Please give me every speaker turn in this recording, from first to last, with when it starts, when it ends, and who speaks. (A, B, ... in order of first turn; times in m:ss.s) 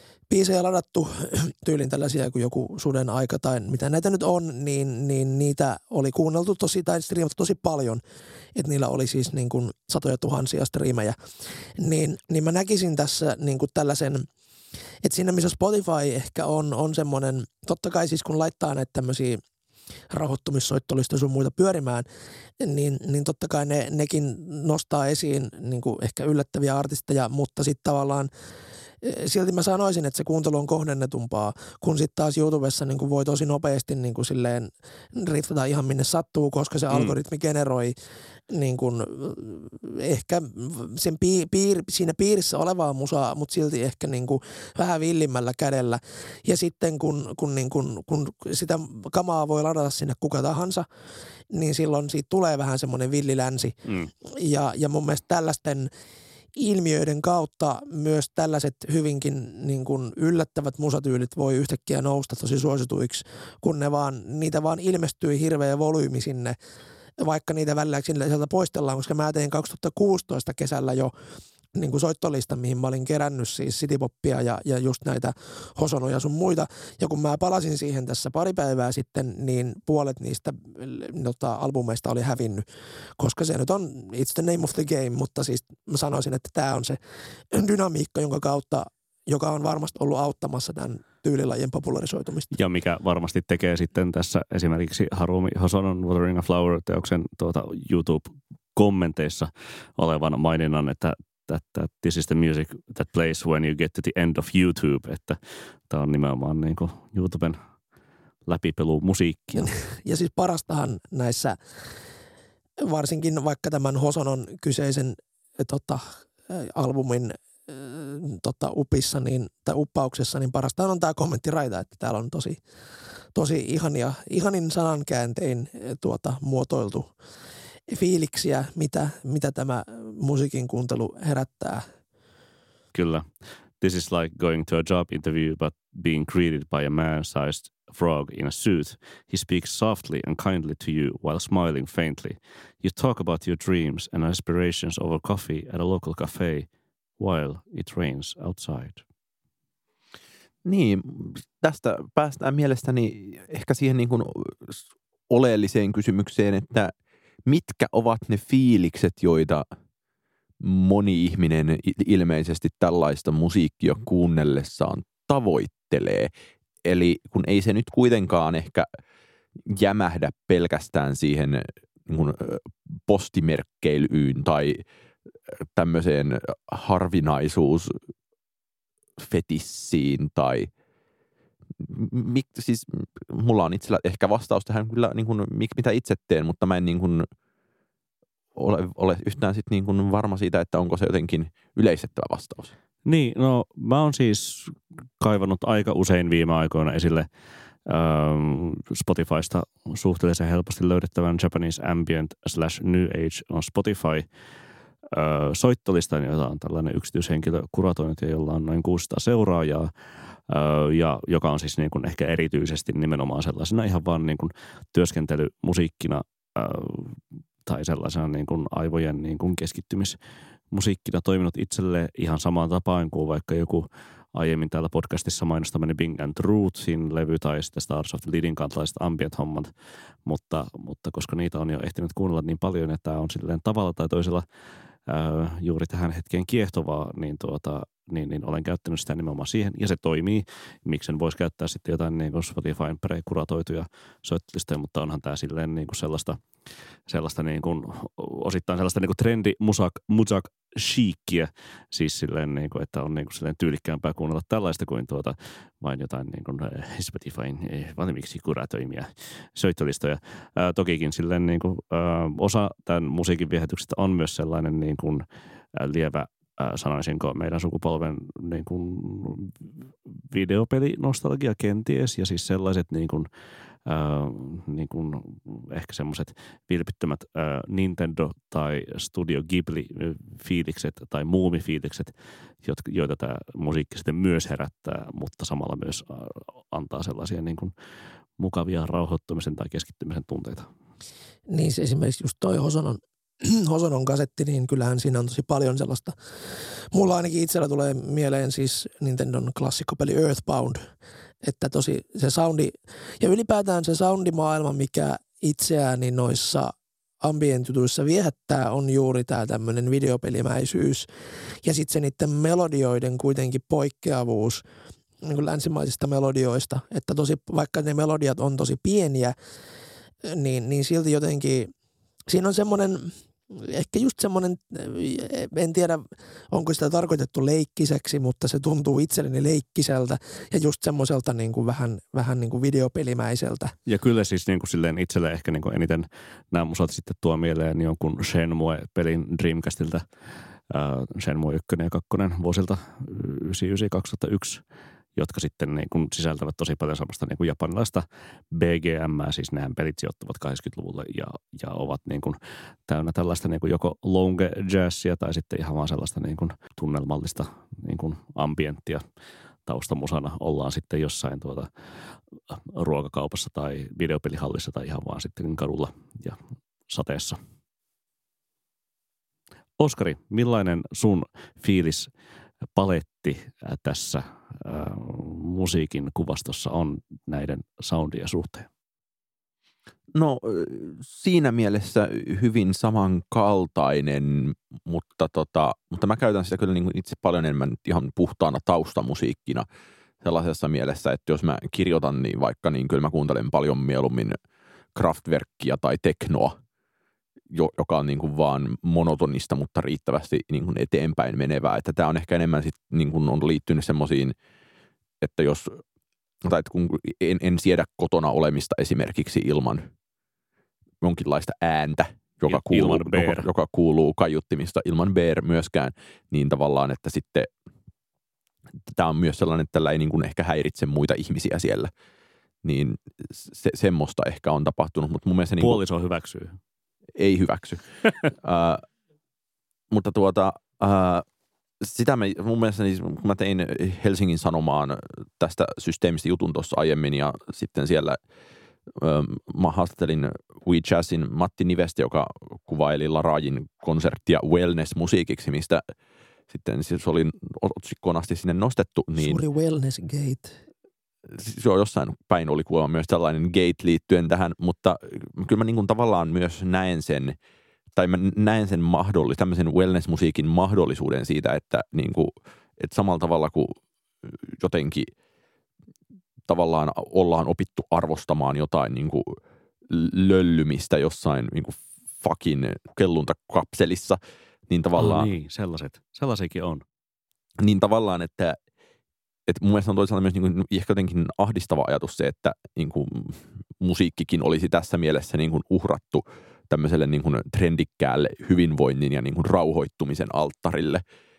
0:00.3-0:08.0 A
0:08.6-0:11.2 A
0:11.8-0:14.3 A
0:15.0-0:19.4 A
0:20.1-0:22.0 A
0:22.6-0:28.3 A
0:29.0-0:37.9 A
0:36.9-0:37.2 B
0:38.5-0:50.9 A
0:51.5-0:53.7 A
0:53.9-0:54.1 B
0:54.2-0:55.9 A
0:56.5-1:06.6 A
1:07.2-1:11.1 A
1:11.7-1:22.6 A
1:23.2-1:27.0 A
1:27.5-1:32.5 A
1:32.5-1:47.6 B
1:48.4-1:49.7 B
1:49.5-1:51.6 A
1:52.8-2:02.6 A
2:03.3-2:07.1 A
2:07.9-2:11.8 A
2:12.9-2:13.3 B
2:13.8-2:26.7 B
2:27.2-2:29.0 B
2:30.6-2:36.9 C
2:37.4-2:39.6 C
2:40.6-2:46.3 C
2:46.8-2:48.9 C
2:49.7-2:54.8 C
2:55.6-2:58.0 C
2:59.2-3:00.7 C
3:01.8-3:07.3 C
3:08.6-3:12.7 C
3:13.0-3:17.3 B
3:17.9-3:24.2 B
3:25.1-3:29.9 B
3:30.5-3:40.2 B
3:40.7-3:49.7 B
3:50.2-3:54.4 B
3:55.1-4:06.4 B
4:07.1-4:29.6 B
4:30.3-4:33.3 B
4:33.9-4:42.1 B
4:42.6-4:47.7 B
4:48.4-4:50.7 B
4:51.5-4:56.1 A
4:56.9-5:00.8 A
5:01.4-5:11.1 A
5:11.6-5:14.6 A
5:15.2-5:19.4 A
5:20.2-5:21.7 A
5:22.3-5:33.7 A
5:33.9-5:40.1 B
5:40.7-5:44.6 B
5:45.1-5:59.0 B
5:59.6-6:01.7 B
6:02.5-6:07.4 B
6:09.8-6:12.1 B
6:12.7-6:18.7 B
6:20.1-6:29.6 C
6:30.2-6:34.4 C
6:34.9-6:36.6 C
6:37.5-6:44.4 C
6:45.2-6:45.8 C
6:46.4-6:49.9 C
6:51.0-6:57.5 C
6:52.5-6:53.5 B
6:58.9-7:01.9 C
7:02.6-7:05.8 C
7:05.6-7:06.6 B
7:07.2-7:08.8 C
7:09.9-7:11.2 C
7:11.8-7:18.2 C
7:18.9-7:25.8 C
7:26.5-7:29.4 C
7:29.2-7:30.6 A
7:31.3-7:37.4 C
7:37.9-7:45.1 C
7:46.5-7:49.4 C
7:49.9-7:55.3 C
7:55.0-7:56.8 B
7:57.6-7:58.6 C
7:59.5-8:11.0 C